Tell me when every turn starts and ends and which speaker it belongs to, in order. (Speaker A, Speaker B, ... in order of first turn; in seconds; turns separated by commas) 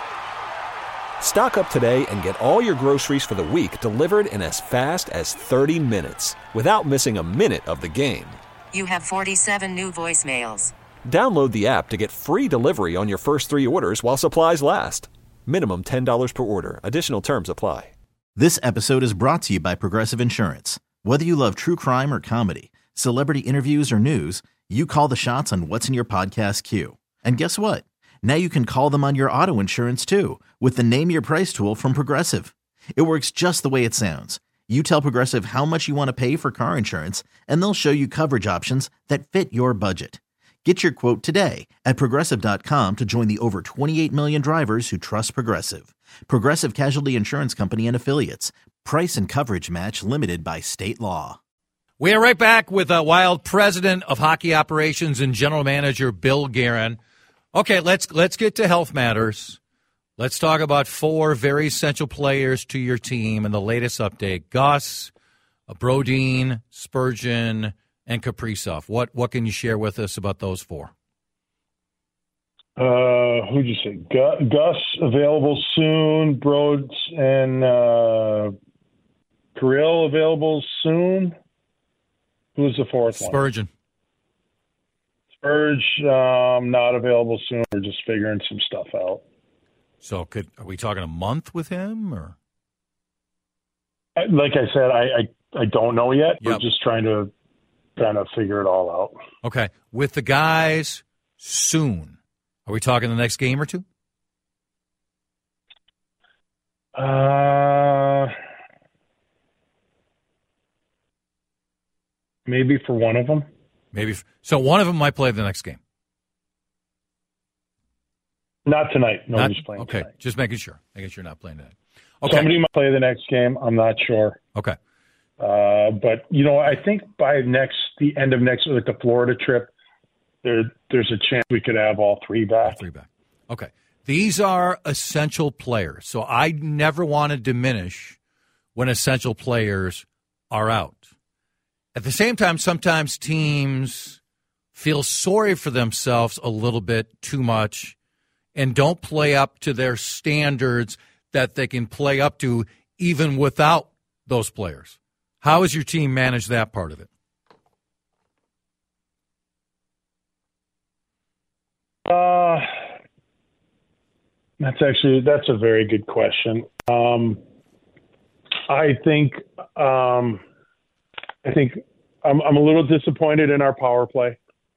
Speaker A: 1.2-8.4, Speaker B: 8.7-10.7, Speaker A: 11.1-17.9, Speaker C: 18.4-51.4, Speaker D: 52.0-57.0, Speaker D: 57.5-59.6, Speaker D: 60.2-65.1, Speaker D: 65.7-70.9, Speaker E: 72.8-78.5, Speaker E: 79.5-81.3, Speaker E: 82.5-83.4, Speaker D: 83.1-83.7, Speaker E: 85.4-89.2, Speaker D: 90.0-92.3, Speaker E: 94.2-97.3, Speaker E: 98.0-99.1, Speaker D: 99.4-102.2, Speaker D: 102.7-103.8, Speaker E: 106.9-108.3, Speaker E: 112.5-113.5, Speaker D: 113.9-115.8, Speaker E: 118.7-120.1, Speaker D: 119.3-122.5, Speaker E: 122.3-124.4, Speaker E: 125.4-129.7, Speaker E: 130.4-132.8, Speaker D: 132.6-138.2, Speaker D: 138.7-141.1, Speaker D: 141.9-144.2, Speaker D: 144.7-147.9, Speaker D: 148.5-157.1, Speaker E: 162.1-162.7, Speaker E: 164.6-167.4, Speaker E: 168.7-170.4, Speaker E: 171.4-174.4